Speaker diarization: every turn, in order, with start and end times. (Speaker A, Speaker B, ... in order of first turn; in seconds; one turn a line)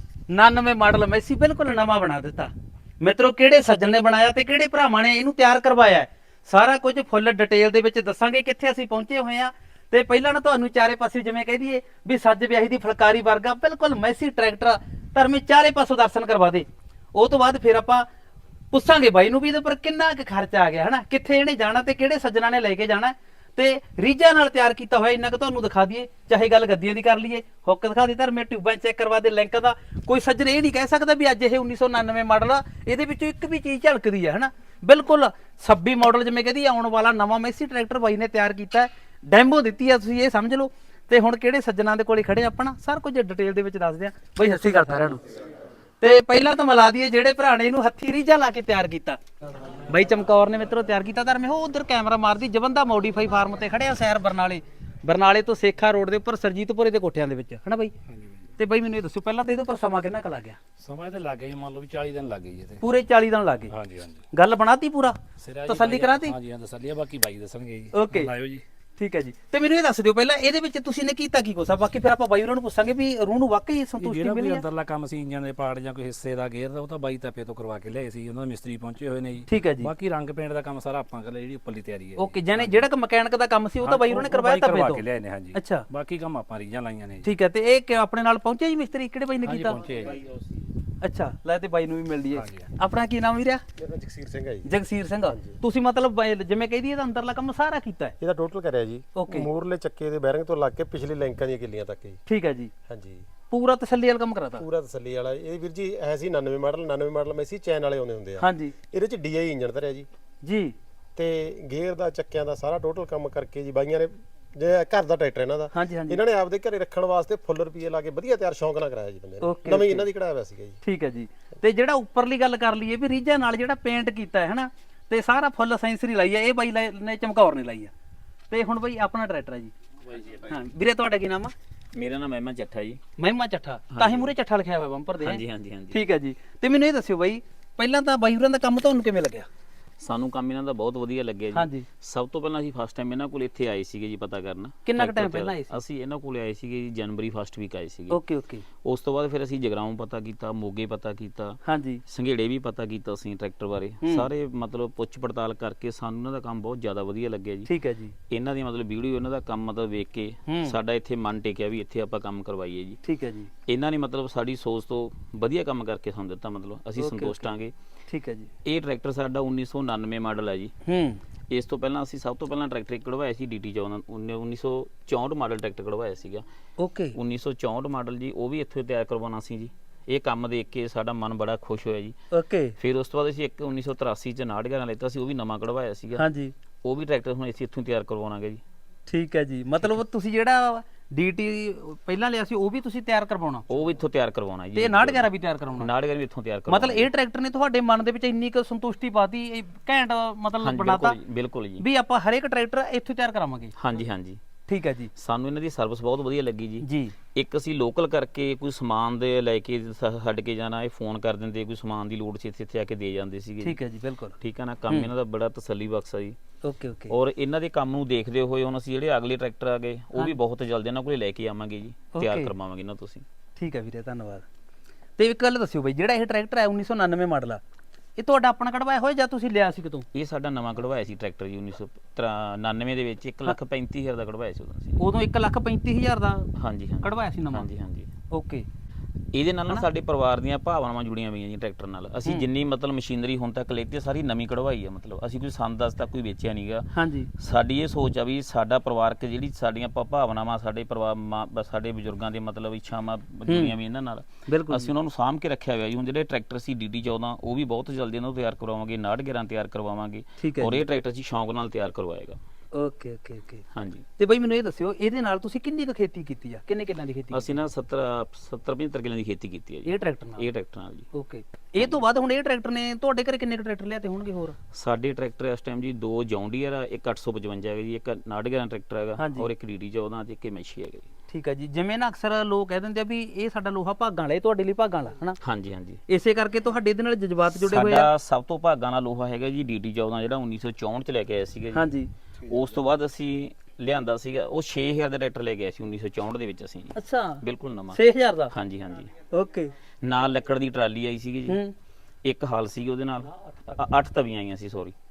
Speaker A: 0.3-18.1
Speaker A: 18.7-45.2
Speaker A: 46.0-49.2
Speaker A: 49.9-57.9
Speaker B: 58.1-58.4
Speaker A: 58.6-60.6
Speaker B: 60.8-62.8
Speaker A: 62.8-63.7
Speaker B: 63.7-64.2
Speaker A: 64.3-66.3
Speaker B: 65.4-68.6
Speaker A: 67.9-68.3
Speaker A: 69.0-74.7
Speaker B: 74.0-82.9
Speaker A: 79.5-79.9
Speaker A: 82.2-85.0
Speaker B: 83.8-87.3
Speaker A: 85.5-85.9
Speaker A: 87.2-89.8
Speaker B: 89.4-90.5
Speaker A: 91.0-93.6
Speaker B: 92.3-92.7
Speaker C: 93.8-94.7
Speaker A: 94.7-98.2
Speaker C: 95.3-95.6
Speaker C: 98.2-102.2
Speaker A: 99.2-99.5
Speaker A: 102.3-102.7
Speaker C: 102.9-103.2
Speaker A: 103.5-104.7
Speaker C: 104.6-110.1
Speaker A: 108.4-108.8
Speaker A: 110.4-110.8
Speaker C: 111.2-120.8
Speaker A: 115.7-116.2
Speaker A: 119.4-120.1
Speaker A: 120.8-127.9
Speaker A: 128.5-129.7
Speaker A: 130.3-131.5
Speaker D: 131.9-133.0
Speaker A: 133.2-139.5
Speaker D: 133.9-134.3
Speaker D: 135.2-136.0
Speaker D: 140.0-148.2
Speaker A: 141.5-141.9
Speaker A: 144.9-145.8
Speaker A: 148.1-148.7
Speaker D: 148.8-157.7
Speaker A: 151.6-152.0
Speaker A: 154.0-154.3
Speaker A: 157.7-158.1
Speaker D: 158.3-163.0
Speaker A: 160.5-160.8
Speaker A: 163.0-163.5
Speaker D: 163.7-167.7
Speaker A: 167.0-167.5
Speaker A: 168.1-168.5
Speaker D: 168.7-170.7
Speaker A: 170.8-171.2
Speaker D: 171.5-176.4
Speaker A: 176.8-177.2
Speaker D: 177.2-182.2
Speaker A: 182.3-182.8
Speaker D: 182.8-186.2
Speaker A: 186.2-186.5
Speaker D: 186.8-188.6
Speaker A: 189.1-193.7
Speaker D: 193.7-197.1
Speaker A: 194.8-195.9
Speaker A: 196.7-201.2
Speaker D: 200.6-201.8
Speaker A: 201.8-203.7
Speaker D: 203.8-204.4
Speaker A: 204.7-205.1
Speaker D: 205.2-213.8
Speaker A: 206.8-207.2
Speaker A: 213.6-214.4
Speaker D: 214.4-216.4
Speaker A: 216.6-217.2
Speaker D: 217.1-223.2
Speaker A: 222.1-222.5
Speaker A: 223.6-224.4
Speaker A: 225.2-227.6
Speaker A: 228.2-230.1
Speaker D: 230.1-235.0
Speaker A: 235.0-236.5
Speaker D: 236.6-238.1
Speaker A: 237.0-237.7
Speaker A: 238.3-238.7
Speaker D: 239.3-262.4
Speaker A: 246.9-247.3
Speaker A: 253.5-253.8
Speaker A: 254.5-254.9
Speaker A: 260.4-260.8
Speaker A: 262.7-263.6
Speaker D: 263.7-264.1
Speaker A: 264.2-267.6
Speaker D: 267.3-271.1
Speaker A: 269.9-270.5
Speaker A: 271.1-274.6
Speaker D: 274.7-281.1
Speaker A: 279.2-279.5
Speaker A: 281.3-285.4
Speaker D: 285.4-286.0
Speaker A: 286.1-288.1
Speaker D: 287.5-291.9
Speaker A: 291.7-292.1
Speaker D: 292.4-298.0
Speaker A: 296.9-298.5
Speaker D: 298.5-299.1
Speaker A: 299.3-299.7
Speaker D: 300.0-301.6
Speaker A: 301.5-301.7
Speaker D: 302.2-304.9